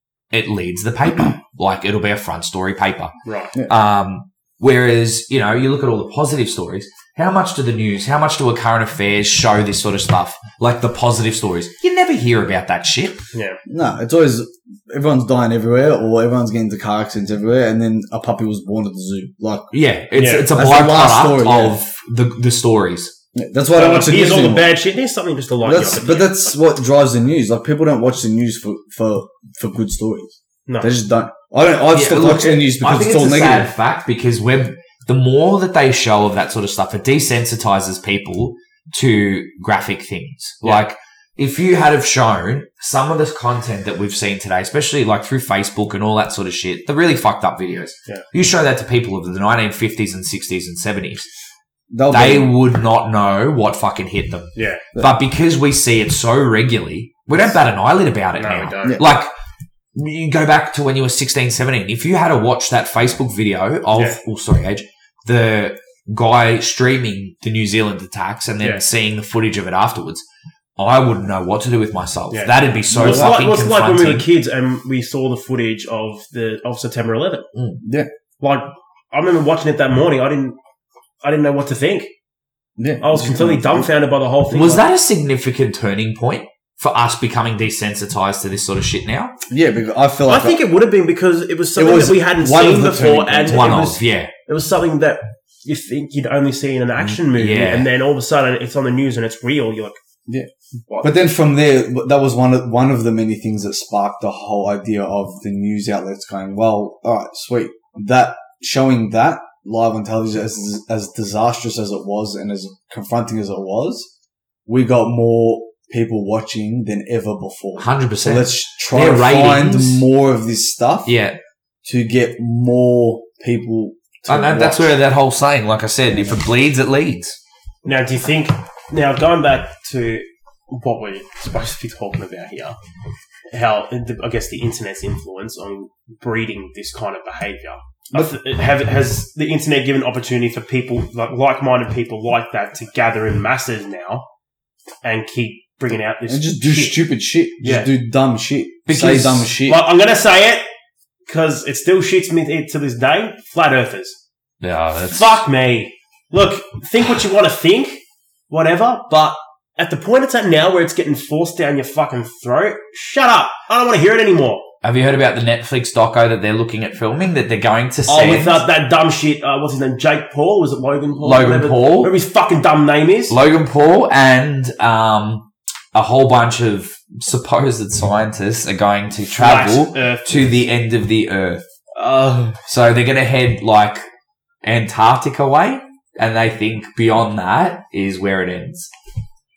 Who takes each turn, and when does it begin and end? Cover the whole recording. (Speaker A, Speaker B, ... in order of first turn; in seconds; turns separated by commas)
Speaker A: 0.3-3.1, Speaker B: 3.2-3.5, Speaker A: 3.7-13.2, Speaker B: 13.3-13.6, Speaker C: 13.7-19.7, Speaker A: 19.7-23.1, Speaker B: 20.1-20.5, Speaker C: 20.5-21.8, Speaker C: 23.3-24.8, Speaker B: 23.7-26.5, Speaker C: 25.6-33.7, Speaker B: 30.7-30.9, Speaker A: 31.9-51.3, Speaker C: 51.9-52.5, Speaker A: 52.1-59.3, Speaker B: 54.5-54.8, Speaker B: 58.4-59.0, Speaker C: 58.8-59.1, Speaker A: 59.9-70.2, Speaker B: 63.9-64.2, Speaker A: 70.8-74.3, Speaker B: 72.3-77.5, Speaker C: 72.9-73.4, Speaker A: 77.5-77.8, Speaker C: 77.8-78.1, Speaker B: 78.4-80.6, Speaker B: 81.2-82.1, Speaker C: 82.8-83.9, Speaker B: 83.0-84.8, Speaker A: 84.5-89.3, Speaker C: 89.5-90.6, Speaker B: 90.3-100.0, Speaker C: 91.8-93.8, Speaker A: 93.5-94.3, Speaker A: 97.3-97.9, Speaker B: 100.9-101.2, Speaker C: 101.0-114.1, Speaker C: 114.7-121.2, Speaker A: 117.8-120.0, Speaker A: 121.1-121.4, Speaker C: 121.8-125.0, Speaker A: 124.3-127.4, Speaker B: 127.8-132.8, Speaker B: 133.5-144.3, Speaker B: 145.0-147.1, Speaker C: 146.3-149.8, Speaker B: 147.6-147.9, Speaker B: 148.9-150.7, Speaker A: 148.9-149.4, Speaker B: 151.3-154.2, Speaker A: 154.6-155.4, Speaker B: 155.1-164.7, Speaker A: 164.8-168.6, Speaker B: 168.1-173.3, Speaker A: 171.2-172.1, Speaker A: 173.3-181.6, Speaker B: 179.4-180.6, Speaker B: 181.9-182.6, Speaker A: 182.6-184.0, Speaker A: 184.6-188.9